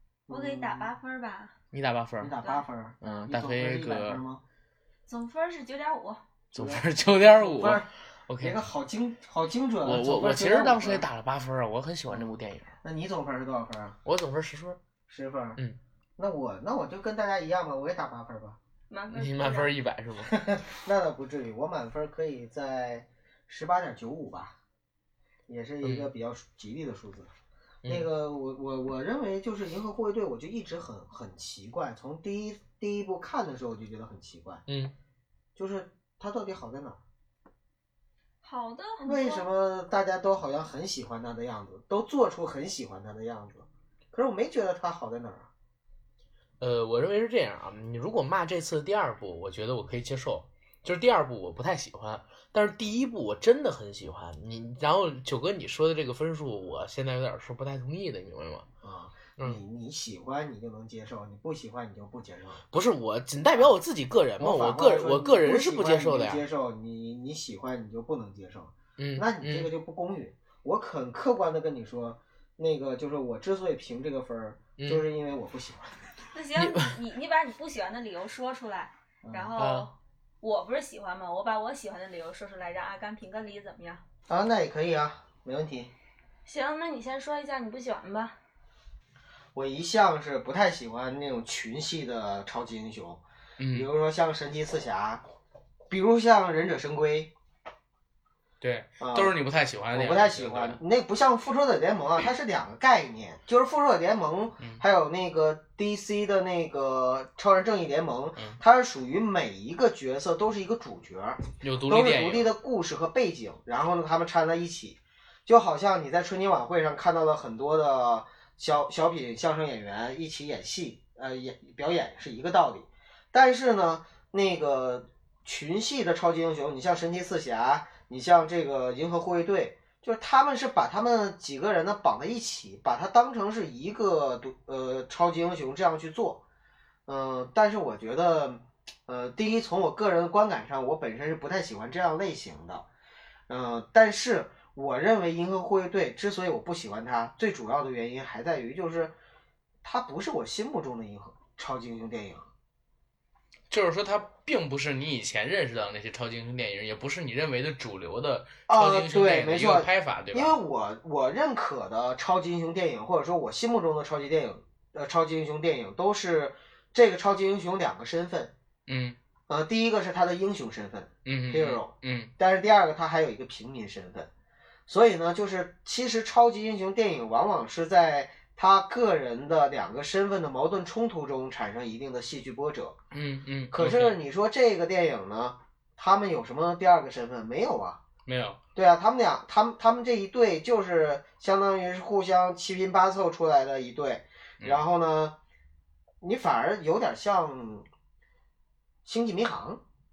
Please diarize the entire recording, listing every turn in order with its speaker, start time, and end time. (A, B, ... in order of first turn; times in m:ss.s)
0:00.3-0:00.9 A
0:00.3-0:01.6 B
0:01.7-0:02.4 C
0:02.2-0:04.4 A
0:03.0-0:04.2 C
0:05.1-0:06.2 B
0:06.5-0:08.6 C
0:06.6-0:07.9 A
0:08.4-0:11.1 A
0:09.8-0:12.7 C
0:12.1-0:14.0 A
0:14.0-0:14.8 C
0:15.1-0:15.6 A
0:16.2-0:18.6 A
0:18.9-0:19.7 B
0:19.1-0:20.4 C
0:20.3-0:24.6 A
0:25.5-0:27.3 A
0:25.8-0:26.1 C
0:27.8-0:34.6 A
0:34.7-0:34.9 C
0:35.6-0:37.0 A
0:38.4-0:39.5 B
0:39.0-0:45.5 A
0:46.6-0:58.7 C
0:58.8-1:02.6 A
1:02.7-1:06.4 C
1:04.4-1:16.0 A
1:09.0-1:09.7 C
1:14.8-1:15.0 C
1:16.3-1:24.0 B
1:16.6-1:16.9 C
1:19.2-1:19.5 A
1:19.6-1:19.9 C
1:24.3-1:25.9 A
1:26.5-1:28.4 B
1:29.6-1:35.2 A
1:33.6-1:33.9 C
1:35.9-1:37.3 A
1:38.6-1:40.8 C
1:39.0-1:39.4 A
1:39.9-2:16.4 A
1:51.6-1:52.5 C
2:17.1-2:22.9 A
2:23.5-2:29.2 A
2:29.8-2:32.5 A
2:33.7-2:40.6 C
2:38.7-2:48.5 A
2:48.9-2:49.2 C
2:49.5-2:54.3 A
2:51.3-2:52.3 C
2:54.9-3:03.0 A
3:03.1-3:04.2 C
3:03.7-3:08.0 A
3:08.3-3:08.6 C
3:08.8-3:15.4 A
3:16.2-3:17.9 A
3:19.0-3:19.8 A